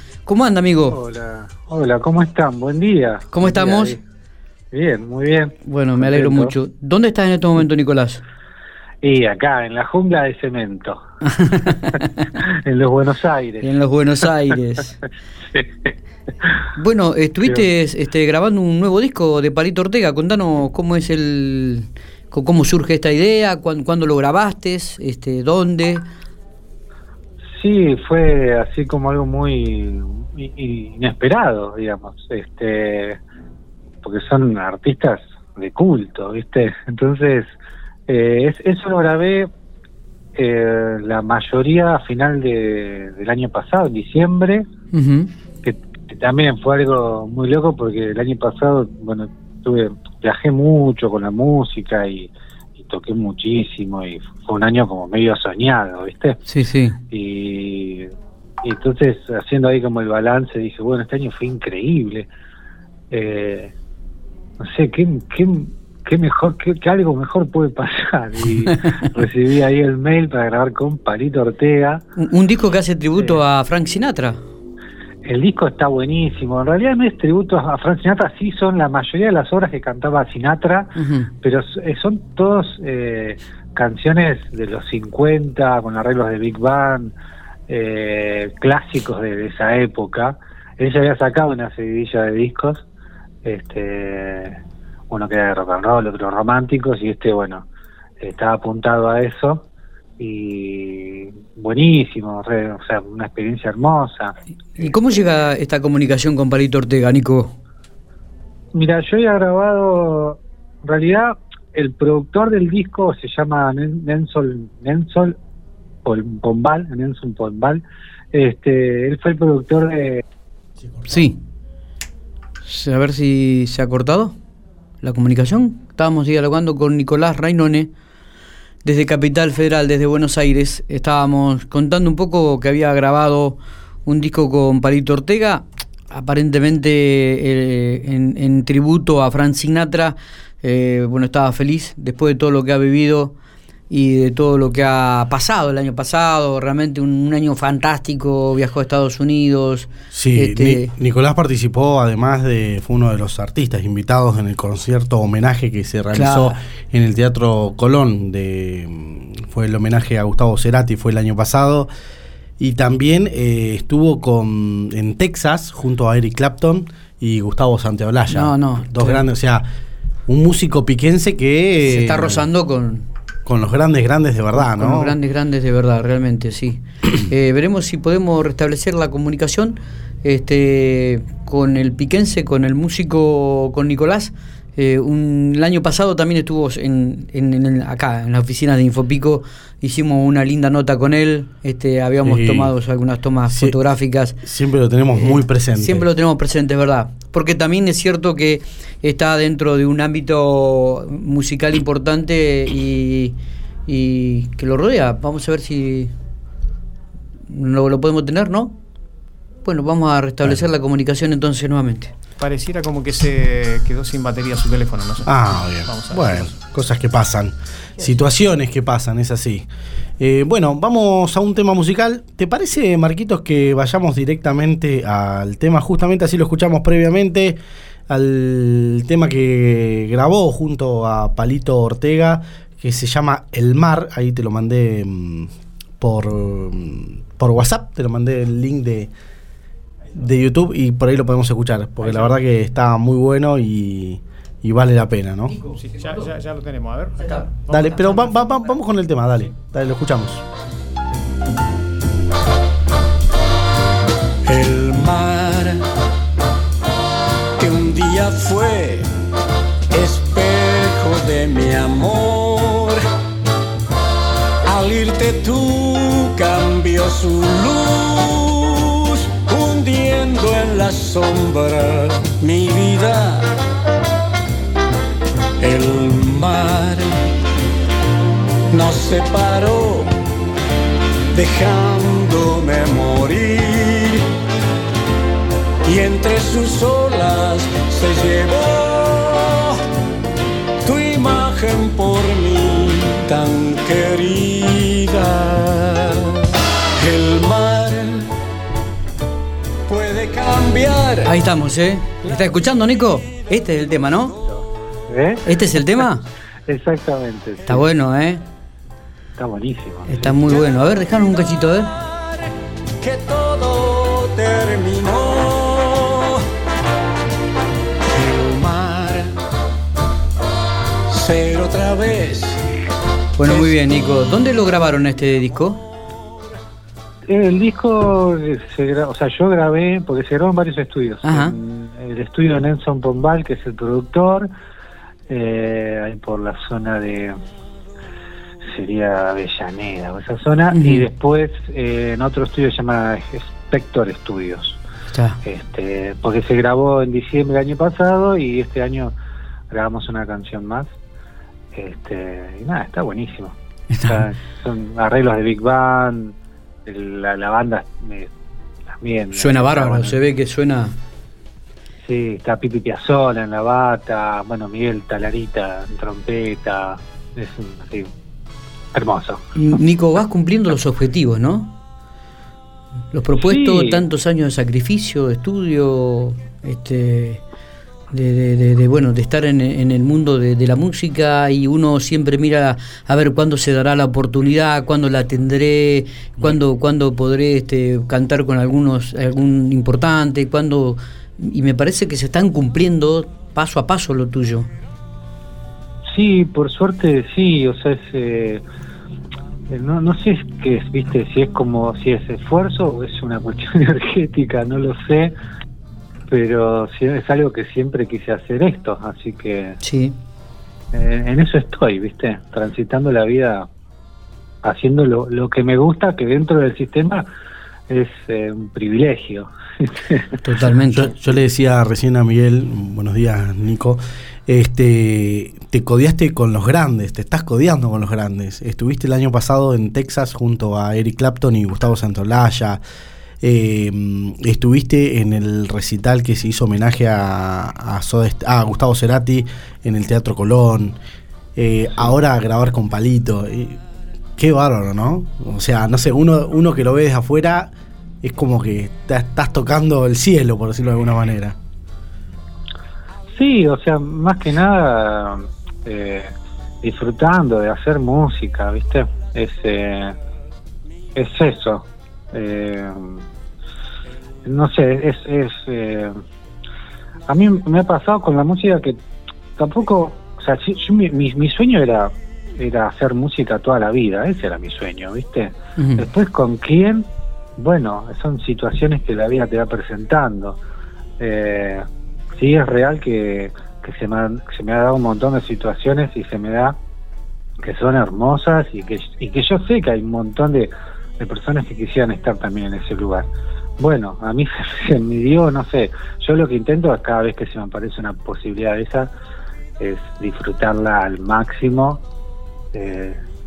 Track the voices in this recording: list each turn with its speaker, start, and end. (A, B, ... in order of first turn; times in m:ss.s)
0:00.2-0:01.0 A
0:00.9-0:04.0 B
0:03.3-0:04.0 A
0:04.7-0:06.5 B
0:05.6-0:08.2 A
0:09.0-0:13.7 B
0:11.3-0:12.3 A
0:13.6-0:15.0 A
0:16.8-0:26.0 A
0:27.6-0:33.2 B
0:34.0-0:37.5 B
0:38.1-0:39.5 B
0:40.4-0:44.7 B
0:44.9-0:45.3 A
0:45.6-0:56.4 B
0:56.5-0:57.0 A
0:57.1-0:58.1 B
0:58.6-1:02.3 B
1:03.1-1:03.7 B
1:04.6-1:12.0 B
1:12.2-1:14.4 A
1:15.2-1:27.1 B
1:21.0-1:21.3 A
1:27.7-1:32.8 B
1:33.4-1:34.6 B
1:35.1-1:37.7 B
1:38.2-1:39.7 B
1:40.2-1:44.9 B
1:44.8-1:47.5 A
1:48.7-1:55.4 B
1:56.0-1:57.8 B
1:58.3-2:00.2 B
2:01.1-2:01.4 A
2:02.6-2:04.4 A
2:05.0-2:07.9 A
2:08.8-2:23.3 A
2:23.9-2:30.9 A
2:30.1-2:41.9 C
2:36.1-2:36.6 A
2:42.6-2:49.6 C
2:48.3-2:49.2 A
2:50.3-2:52.5 C
2:51.8-2:53.0 A
2:53.4-2:55.2 C
2:54.6-3:14.4 A
3:12.2-3:12.7 C
3:13.5-3:13.8 C
3:14.4-3:16.1 C
3:15.1-3:23.4 A
3:23.9-3:26.1 A
3:27.5-3:28.7 A
3:29.6-3:32.1 A
3:32.4-3:36.5 D
3:35.2-3:39.7 C
3:40.2-3:47.6 C
3:48.1-3:59.1 C
4:00.1-4:05.6 C
4:05.7-4:08.7 D
4:07.7-4:10.4 C
4:14.4-4:15.8 E
4:17.6-4:19.1 E
4:19.9-4:23.0 E
4:24.6-4:33.5 E
4:35.6-4:37.2 E
4:38.7-4:40.1 E
4:41.3-4:44.3 E
4:45.8-4:49.8 E
4:50.8-4:58.3 E
4:59.9-5:01.3 E
5:01.2-5:04.4 A
5:05.1-5:05.5 B
5:05.4-5:06.3 A
5:06.7-5:07.8 B
5:07.7-5:08.4 A
5:09.4-5:10.6 B
5:10.1-5:11.9 A
5:13.0-5:16.4 E
5:18.1-5:19.4 E
5:21.1-5:22.6 E
5:23.4-5:25.8 A
5:23.4-5:23.7 E
5:27.3-5:34.5 B
5:31.2-5:31.6 A
5:35.3-5:37.4 B
5:38.6-5:44.8 B
5:40.7-5:41.0 A
5:45.1-5:45.4 A
5:45.4-5:49.1 B
5:49.7-5:50.9 B
5:51.7-5:56.3 B
5:53.9-5:54.2 A
5:56.8-5:58.3 B
5:59.0-6:00.2 B
5:59.3-6:00.9 A
6:02.0-6:08.1 B
6:08.9-6:09.4 B
6:09.5-6:11.7 A
6:13.1-6:17.4 A
6:13.4-6:14.0 B
6:18.1-6:34.7 A
6:36.1-6:38.6 B
6:39.7-6:45.3 B
6:46.3-6:49.8 B
6:49.8-6:50.1 A
6:50.9-6:53.7 B
6:54.6-6:57.2 B
6:57.9-7:00.3 B
7:00.4-7:01.1 A
7:00.9-7:12.8 C
7:13.4-7:21.0 C
7:21.6-7:23.8 C
7:24.4-7:27.7 C
7:28.2-7:31.6 C
7:33.3-7:40.2 B
7:41.2-7:43.2 B
7:44.4-7:46.1 B
7:47.3-7:49.0 B
7:49.6-8:00.6 B
7:55.8-7:56.0 A
8:01.2-8:01.8 B
8:02.4-8:06.8 B
8:07.6-8:13.3 B
8:13.8-8:19.1 B
8:19.8-8:22.0 B
8:22.7-8:23.2 B